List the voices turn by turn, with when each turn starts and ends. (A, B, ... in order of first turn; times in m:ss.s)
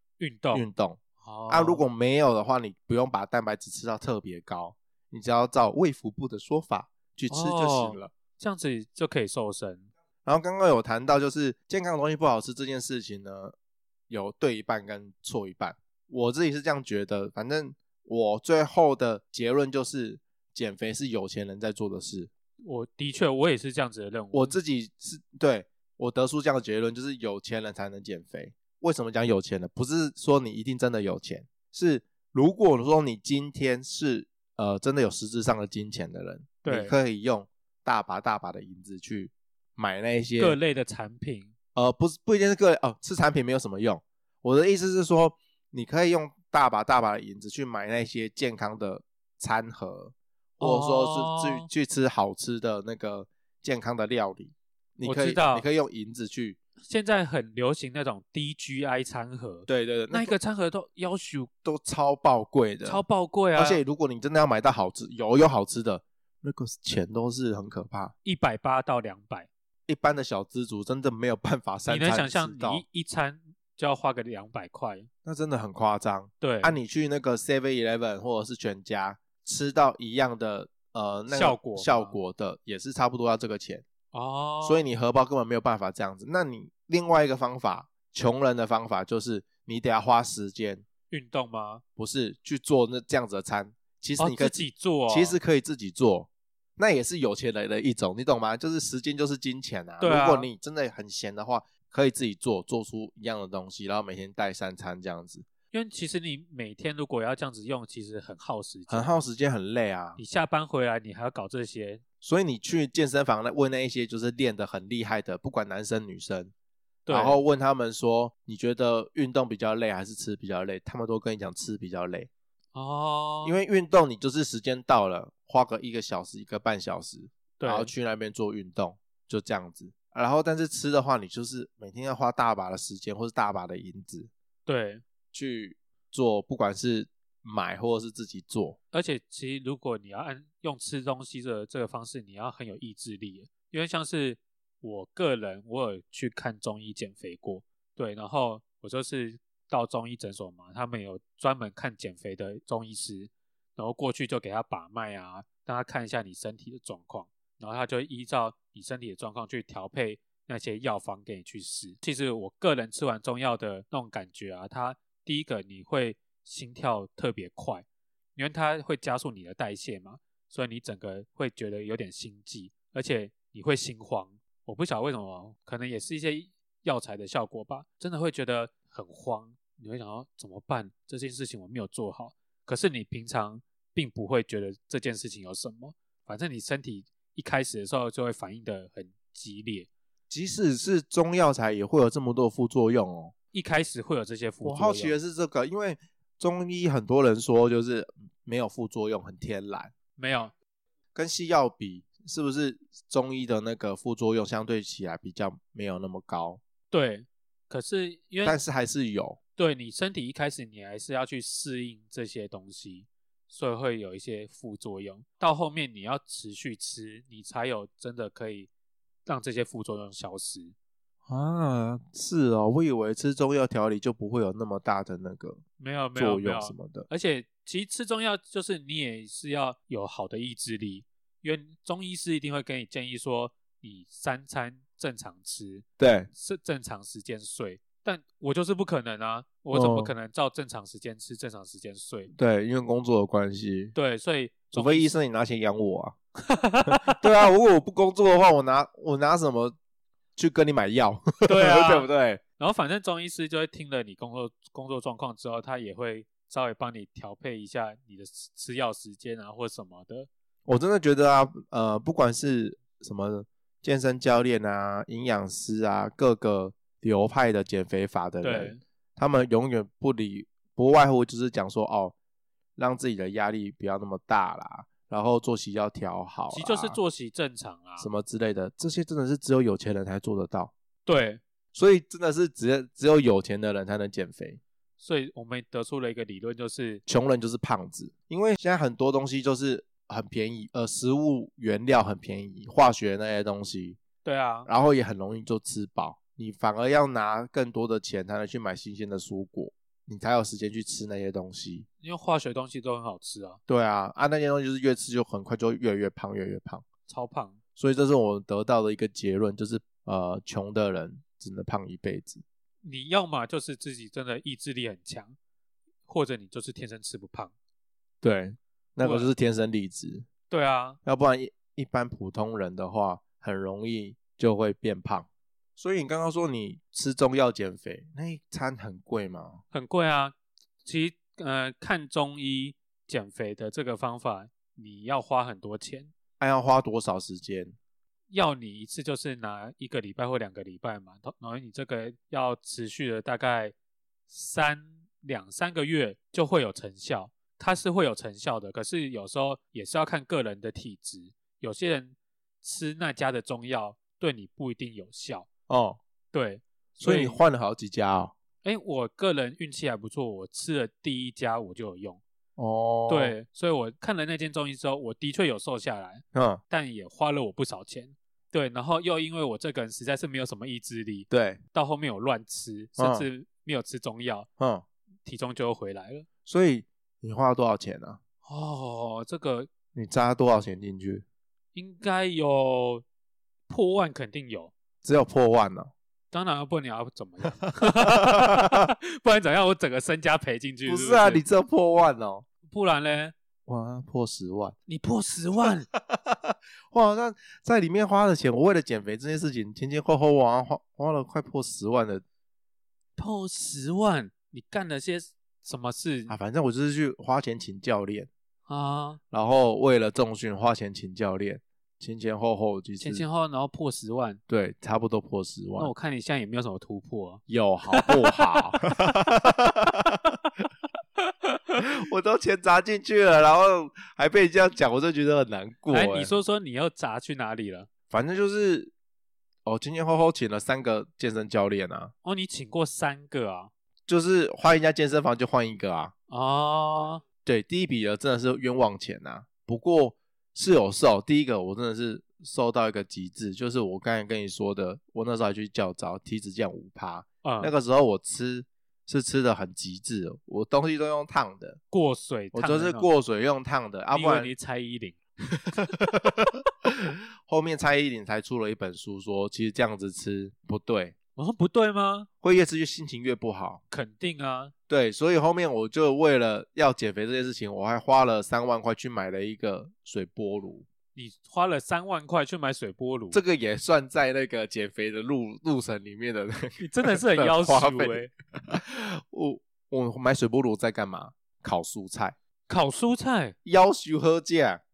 0:00.2-0:00.6 A
0:00.5-0:08.1 B
0:01.2-0:01.8 A
0:07.3-0:09.9 A
0:10.2-0:13.6 B
0:14.1-0:22.3 B
0:22.6-0:24.6 A
0:24.3-0:40.6 B
0:36.6-0:37.0 A
0:40.4-0:41.5 A
0:41.8-0:56.6 B
0:50.6-0:51.7 A
0:55.0-0:55.6 A
0:56.8-1:01.5 A
0:59.7-1:00.3 B
1:01.6-1:03.0 B
1:02.8-1:03.8 A
1:03.5-1:08.1 B
1:08.2-1:09.5 A
1:09.9-1:12.8 B
1:11.9-1:15.1 A
1:15.2-1:23.8 B
1:16.4-1:16.8 A
1:21.3-1:22.2 A
1:24.1-1:24.8 A
1:24.6-1:30.8 B
1:31.1-1:31.8 A
1:32.0-1:45.4 B
1:34.2-1:35.4 A
1:40.0-1:40.5 A
1:45.7-1:49.1 A
1:48.9-1:50.2 B
1:50.2-1:52.0 A
1:52.2-1:56.5 B
1:57.0-1:57.4 A
1:57.1-2:02.3 B
2:02.7-2:03.6 A
2:03.4-2:14.3 B
2:07.6-2:07.9 A
2:14.6-2:15.0 A
2:15.3-2:18.8 B
2:18.9-2:47.8 A
2:48.4-3:09.9 A
3:10.3-3:13.3 B
3:13.5-3:15.2 A
3:14.6-3:19.9 B
3:20.2-3:20.5 A
3:21.1-3:26.6 B
3:26.9-3:28.6 A
3:28.4-3:29.4 B
3:29.6-3:38.7 A
3:39.2-3:40.7 A
3:41.3-3:45.6 B
3:45.8-4:02.3 A
3:46.1-3:47.1 B
3:56.0-3:56.3 B
3:59.7-4:00.1 B
4:02.3-4:03.9 B
4:03.9-4:05.1 A
4:04.7-4:06.1 B
4:06.4-4:07.2 A
4:06.9-4:09.8 B
4:10.4-4:12.4 B
4:11.4-4:20.3 A
4:20.6-4:32.1 B
4:28.4-4:28.8 A
4:32.8-4:37.0 B
4:36.5-4:38.1 A
4:38.0-4:40.7 B
4:41.0-4:41.4 A
4:41.7-4:44.6 B
4:45.0-4:47.0 A
4:47.0-4:54.0 B
4:54.2-4:54.7 A
4:54.6-5:01.8 B
5:02.0-5:03.6 A
5:03.7-5:06.8 B
5:07.1-5:07.6 A
5:07.8-5:12.4 B
5:12.8-5:15.4 A
5:16.0-5:17.5 A
5:18.2-5:20.3 B
5:19.0-5:19.3 A
5:20.5-5:21.0 A
5:21.0-5:29.6 B
5:29.7-5:36.1 A
5:36.4-5:37.8 B
5:38.3-5:43.7 A
5:44.3-5:55.5 A
5:55.7-5:56.0 B
5:56.3-5:57.4 A
5:57.0-5:58.3 B
5:58.6-6:02.2 A
6:02.6-6:03.3 B
6:03.1-6:14.5 A
6:06.3-6:06.6 B
6:11.3-6:11.6 B
6:13.0-6:13.2 B
6:14.6-6:14.8 B
6:15.2-6:16.3 A
6:16.4-6:18.2 B
6:18.4-6:19.7 A
6:19.9-6:21.2 B
6:21.7-6:23.0 A
6:23.7-6:24.7 A
6:25.0-6:25.9 B
6:26.3-6:31.4 A
6:27.6-6:28.9 B
6:30.8-6:32.4 B
6:32.7-6:33.3 A
6:33.7-6:34.7 B
6:34.9-6:35.9 A
6:35.9-6:42.2 B
6:43.2-6:46.3 A
6:46.3-6:48.3 B
6:48.7-6:49.2 A
6:49.3-6:53.2 B
6:53.0-6:54.4 A
6:54.5-6:55.9 B
6:55.8-6:58.7 A
6:57.5-7:00.3 B
7:01.5-7:01.8 A
7:01.8-7:06.3 B
7:05.9-7:07.9 A
7:08.1-7:08.9 B
7:09.6-7:12.1 B
7:12.2-7:13.7 A
7:14.1-7:16.1 B
7:16.3-7:17.2 A
7:17.4-7:31.8 B
7:27.4-7:27.7 A
7:31.9-7:33.1 A
7:32.5-7:34.5 B
7:34.1-7:35.2 A
7:35.5-7:41.2 B
7:41.4-7:42.3 A
7:42.4-7:43.8 B
7:43.9-7:44.7 A
7:44.9-7:50.9 B
7:51.1-7:53.4 A
7:53.3-8:02.4 B
7:56.8-7:58.3 A
8:02.7-8:03.5 A
8:03.6-8:04.8 B